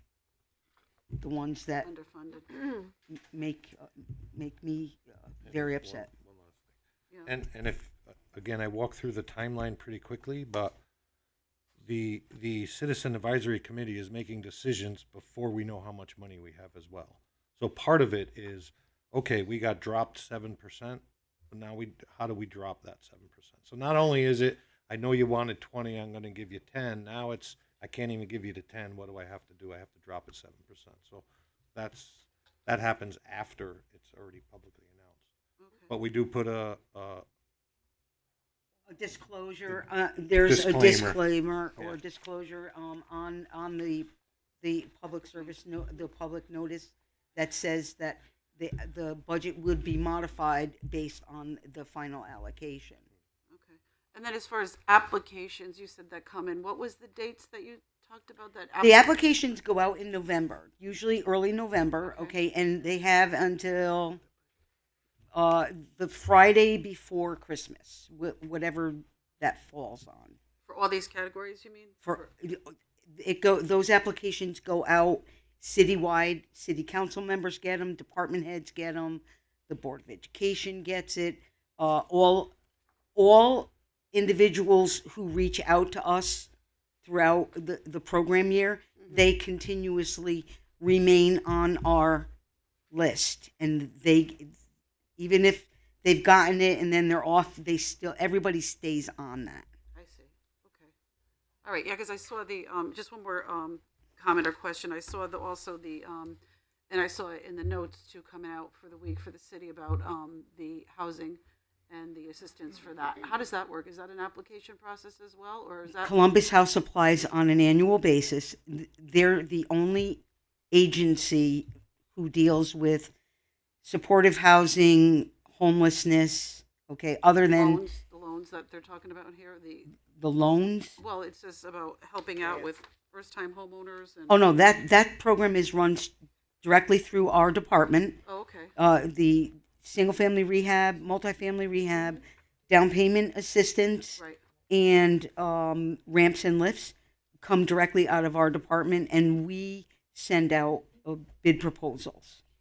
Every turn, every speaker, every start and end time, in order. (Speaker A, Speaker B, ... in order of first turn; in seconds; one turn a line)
Speaker A: 1.2-1.9
Speaker B: 1.8-2.7
Speaker A: 3.1-6.1
Speaker C: 5.5-6.7
Speaker C: 7.2-10.8
Speaker C: 11.8-35.3
Speaker B: 35.6-35.9
Speaker C: 35.9-37.3
Speaker A: 38.9-44.1
Speaker C: 40.4-41.2
Speaker A: 44.6-53.1
Speaker B: 53.5-59.2
Speaker A: 58.8-64.2
Speaker B: 62.0-62.4
Speaker A: 65.3-70.4
Speaker B: 70.7-72.2
Speaker A: 72.0-82.5
Speaker A: 83.2-86.5
Speaker A: 87.0-92.3
Speaker A: 92.9-94.6
Speaker A: 95.2-99.7
Speaker B: 100.0-100.9
Speaker B: 101.6-106.4
Speaker B: 106.9-116.1
Speaker A: 116.0-123.1
Speaker A: 123.8-127.8
Speaker B: 127.4-130.0
Speaker A: 130.2-131.0
Speaker B: 131.0-134.4
Speaker A: 134.3-138.2
Speaker B: 138.3-138.7
Speaker A: 138.8-152.4